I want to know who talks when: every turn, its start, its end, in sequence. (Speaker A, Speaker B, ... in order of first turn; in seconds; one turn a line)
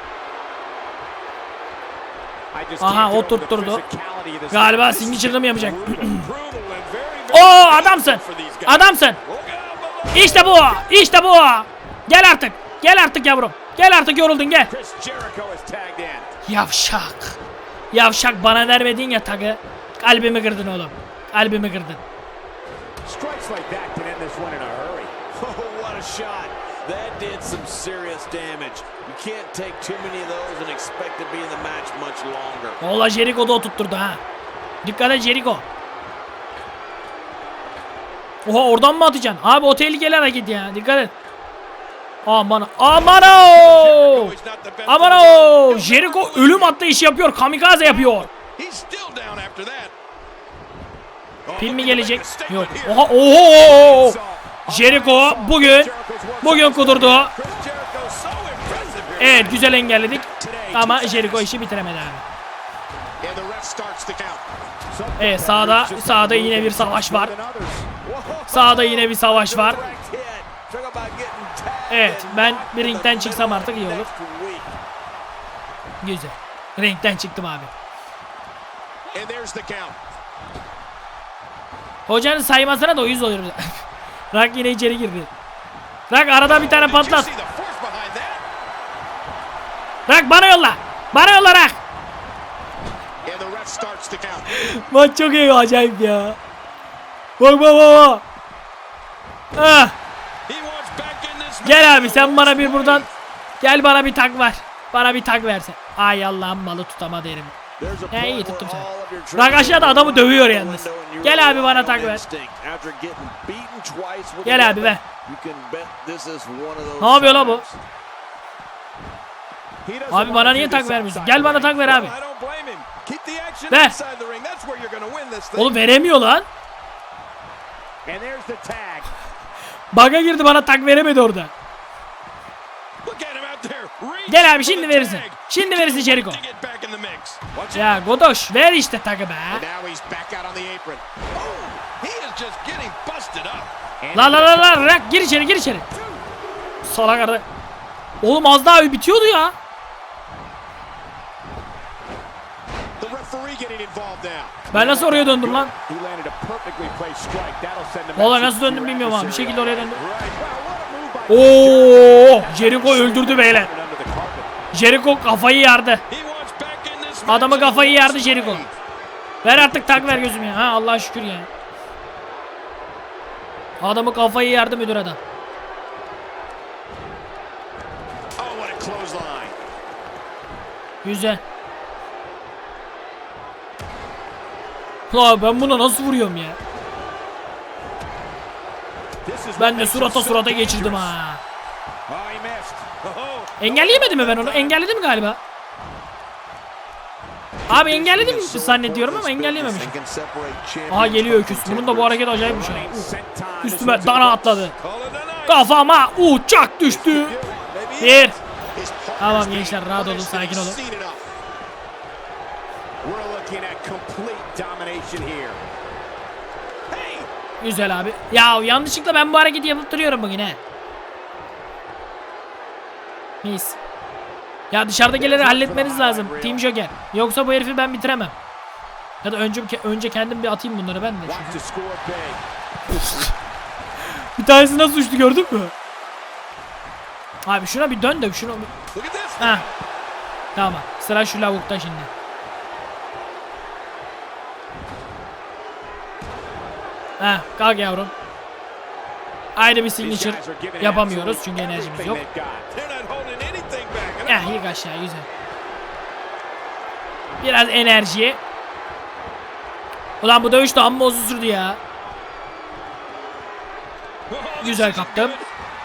Speaker A: 2.5-6.2
Speaker B: 2.8-3.8
Speaker B: 4.5-6.3
Speaker C: 6.0-10.9
Speaker B: 7.3-9.2
Speaker B: 10.1-14.7
Speaker A: 14.7-16.3
Speaker B: 16.4-17.4
Speaker B: 17.9-22.0
Speaker A: 23.0-25.2
Speaker C: 25.3-32.8
Speaker B: 32.8-34.2
Speaker B: 34.8-35.6
Speaker B: 38.4-41.1
Speaker B: 42.2-44.3
Speaker C: 43.0-46.8
Speaker B: 44.9-48.3
Speaker C: 47.8-49.9
Speaker C: 51.5-53.1
Speaker B: 51.6-57.3
Speaker A: 53.6-57.3
Speaker C: 57.1-59.8
Speaker B: 59.2-62.2
Speaker A: 60.2-61.5
Speaker A: 63.2-67.9
Speaker B: 65.2-67.3
Speaker C: 68.0-74.8
Speaker B: 68.5-69.8
Speaker B: 71.9-74.1
Speaker B: 76.0-77.7
Speaker A: 79.1-80.0
Speaker B: 82.1-85.3
Speaker B: 86.1-87.3
Speaker C: 86.5-88.4
Speaker B: 90.1-91.8
Speaker A: 93.2-94.5
Speaker B: 94.5-96.4
Speaker B: 97.4-98.2
Speaker B: 99.5-99.9
Speaker C: 100.5-103.1
Speaker B: 101.6-103.1
Speaker B: 103.6-107.5
Speaker C: 107.8-117.8
Speaker B: 108.1-112.2
Speaker B: 114.4-115.0
Speaker B: 117.0-117.6
Speaker A: 119.8-121.8
Speaker B: 120.1-122.1
Speaker C: 121.8-125.8
Speaker B: 123.7-124.0
Speaker B: 125.5-126.5
Speaker A: 128.0-129.1
Speaker B: 129.9-131.5
Speaker C: 133.0-138.0
Speaker B: 134.3-136.4
Speaker B: 137.7-139.6
Speaker A: 139.5-141.0
Speaker C: 141.3-143.7
Speaker A: 144.0-144.9
Speaker B: 144.1-145.8
Speaker B: 146.8-147.4
Speaker B: 148.2-149.5
Speaker A: 153.0-164.5
Speaker B: 154.7-155.7
Speaker B: 158.2-160.0
Speaker B: 161.3-163.7
Speaker B: 164.7-166.0
Speaker C: 166.1-168.7
Speaker B: 167.2-168.6
Speaker B: 169.4-171.5
Speaker A: 169.4-170.6
Speaker B: 173.8-175.2
Speaker A: 178.4-179.6
Speaker B: 181.0-181.4
Speaker B: 185.1-186.6
Speaker A: 189.2-191.2
Speaker B: 189.6-191.4
Speaker A: 192.1-192.9
Speaker C: 193.0-194.8
Speaker B: 193.6-195.4
Speaker B: 197.7-199.9
Speaker C: 197.7-202.2
Speaker B: 200.9-204.7
Speaker A: 202.3-204.7
Speaker C: 204.8-205.8
Speaker B: 205.5-207.4
Speaker A: 206.9-207.7
Speaker C: 207.4-208.4
Speaker B: 208.0-208.4
Speaker A: 208.7-211.2
Speaker B: 209.2-210.8
Speaker A: 213.0-215.6
Speaker C: 216.9-217.3
Speaker B: 217.6-220.6
Speaker B: 223.4-223.8
Speaker B: 224.7-228.3
Speaker A: 225.1-226.7
Speaker B: 229.2-231.6
Speaker A: 231.2-232.4
Speaker B: 232.9-233.3
Speaker B: 234.4-235.7
Speaker B: 237.4-238.7
Speaker C: 238.9-239.7
Speaker B: 239.4-239.7
Speaker B: 240.5-242.1
Speaker B: 247.2-248.1
Speaker B: 249.6-252.2
Speaker A: 250.0-252.7
Speaker C: 252.7-254.7
Speaker B: 254.2-255.3
Speaker B: 257.4-258.4
Speaker B: 260.2-261.8
Speaker C: 264.3-265.5
Speaker B: 264.6-265.4